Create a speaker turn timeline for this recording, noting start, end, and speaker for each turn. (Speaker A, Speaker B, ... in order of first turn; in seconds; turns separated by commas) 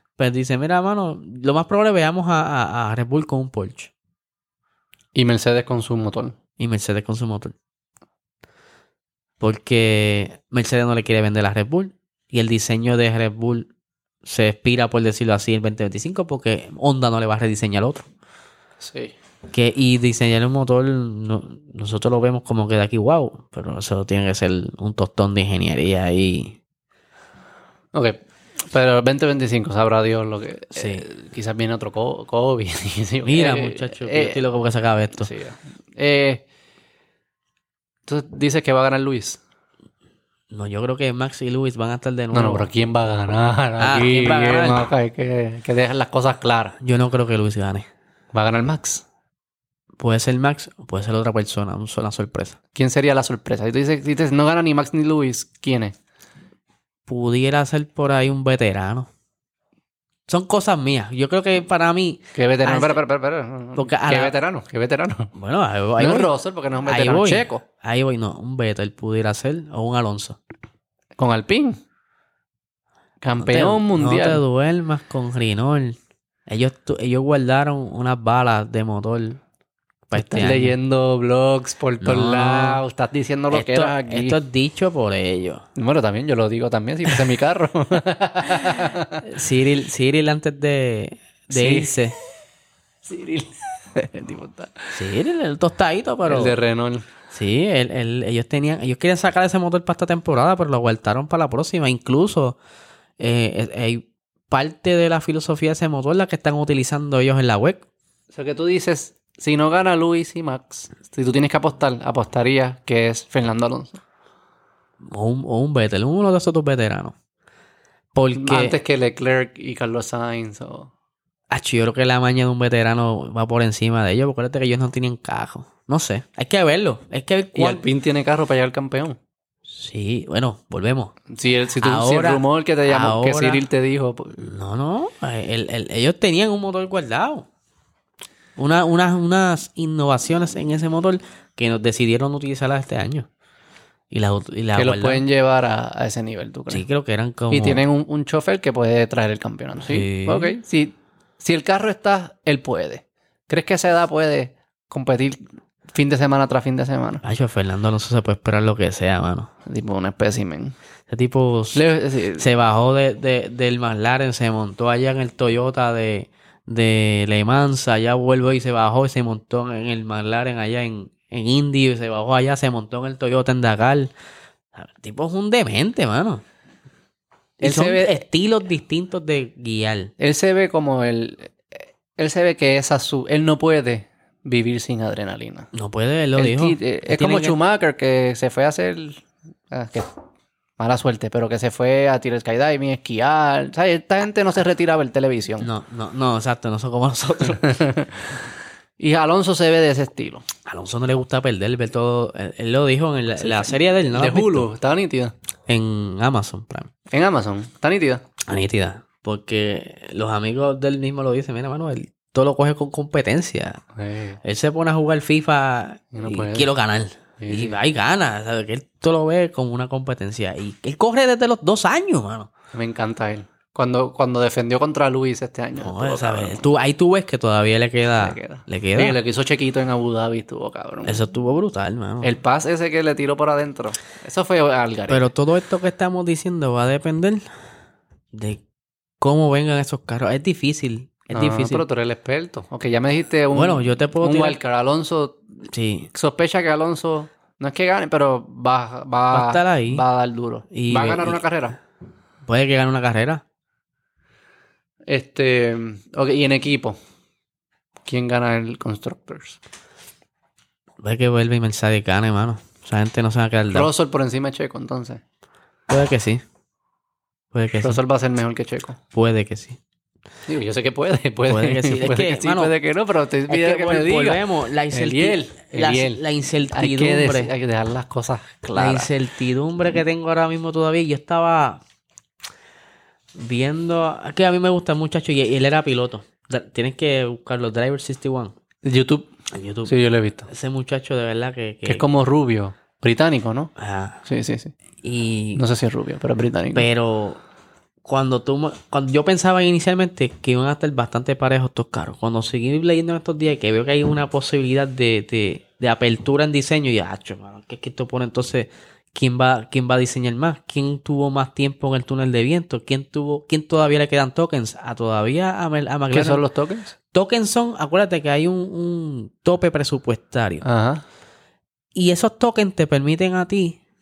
Speaker A: 0.2-3.9, Speaker B: 5.1-6.4, Speaker A: 6.6-7.5, Speaker A: 9.4-13.7, Speaker A: 14.2-18.1, Speaker B: 18.8-19.1, Speaker A: 19.5-26.6, Speaker B: 27.9-34.4, Speaker A: 30.7-31.0, Speaker A: 33.2-35.3, Speaker B: 35.2-36.4, Speaker B: 38.1-39.4, Speaker A: 40.5-42.7, Speaker B: 42.3-46.8, Speaker A: 43.8-44.9, Speaker A: 46.8-47.9, Speaker B: 48.3-49.0, Speaker A: 50.0-52.6, Speaker B: 52.7-55.9, Speaker A: 57.1-59.1, Speaker A: 60.3-63.0, Speaker B: 62.3-65.3, Speaker A: 63.8-64.3, Speaker A: 65.3-66.3, Speaker B: 66.0-67.6, Speaker A: 66.8-70.4, Speaker B: 71.2-71.8, Speaker B: 73.2-74.4, Speaker A: 73.4-79.4, Speaker A: 80.1-80.7, Speaker B: 80.1-84.4, Speaker A: 82.0-82.8, Speaker A: 83.5-85.6, Speaker B: 85.8-89.2, Speaker A: 89.2-92.1, Speaker B: 91.5-92.0, Speaker B: 93.0-95.0, Speaker A: 94.9-96.5, Speaker B: 96.2-97.0, Speaker A: 97.3-102.6, Speaker A: 103.2-107.8, Speaker B: 108.3-114.0, Speaker A: 115.1-117.1, Speaker A: 118.1-118.8, Speaker B: 118.3-120.9, Speaker A: 121.5-127.8, Speaker B: 127.5-129.2, Speaker A: 129.7-131.2, Speaker B: 131.3-134.4, Speaker A: 131.8-133.6, Speaker A: 134.4-137.5, Speaker A: 138.6-143.3, Speaker A: 144.1-145.2, Speaker B: 144.7-146.8, Speaker A: 146.7-147.8, Speaker B: 147.5-155.4, Speaker A: 149.8-150.5, Speaker B: 155.9-157.2, Speaker A: 157.2-159.5, Speaker B: 159.7-160.7, Speaker A: 161.1-161.8, Speaker B: 161.7-162.5, Speaker A: 162.4-174.1, Speaker A: 174.7-176.4, Speaker A: 177.6-180.1, Speaker B: 177.6-178.1, Speaker B: 180.2-185.7, Speaker A: 185.7-187.6, Speaker B: 186.3-190.1, Speaker B: 190.8-195.7, Speaker A: 195.6-197.8, Speaker B: 197.5-198.3, Speaker B: 199.0-200.4, Speaker A: 200.7-204.7, Speaker B: 203.4-205.3, Speaker A: 205.7-206.9, Speaker B: 207.1-208.2, Speaker A: 208.4-213.8, Speaker B: 213.9-214.4, Speaker A: 214.4-222.5, Speaker B: 216.1-216.7, Speaker B: 217.4-217.8, Speaker B: 222.7-226.7, Speaker A: 225.8-229.2, Speaker B: 228.2-231.2, Speaker A: 231.1-232.3, Speaker B: 232.2-235.3, Speaker A: 235.1-237.4, Speaker A: 238.3-238.6, Speaker A: 239.2-241.8, Speaker B: 241.3-245.4, Speaker A: 243.5-244.6, Speaker A: 245.7-246.1, Speaker B: 246.1-251.8, Speaker A: 249.3-250.0, Speaker A: 250.7-251.4, Speaker A: 252.4-253.4, Speaker B: 255.1-257.0, Speaker B: 258.0-259.6, Speaker A: 261.0-263.9, Speaker B: 263.7-265.2, Speaker A: 265.9-266.4, Speaker A: 267.5-268.0, Speaker B: 267.8-269.0, Speaker A: 269.1-269.8, Speaker B: 270.5-279.1, Speaker A: 271.5-272.7, Speaker A: 273.5-277.5, Speaker A: 278.7-281.8, Speaker A: 283.4-288.5, Speaker B: 288.8-289.3, Speaker A: 289.5-289.9, Speaker B: 289.9-290.5, Speaker A: 290.5-292.0, Speaker B: 291.8-293.7, Speaker A: 293.8-294.2, Speaker B: 294.2-294.7, Speaker A: 295.0-295.6, Speaker B: 295.6-296.9, Speaker A: 296.7-297.4, Speaker A: 298.0-316.4, Speaker B: 316.1-316.9, Speaker A: 317.1-320.6, Speaker B: 320.6-321.0, Speaker A: 321.9-323.8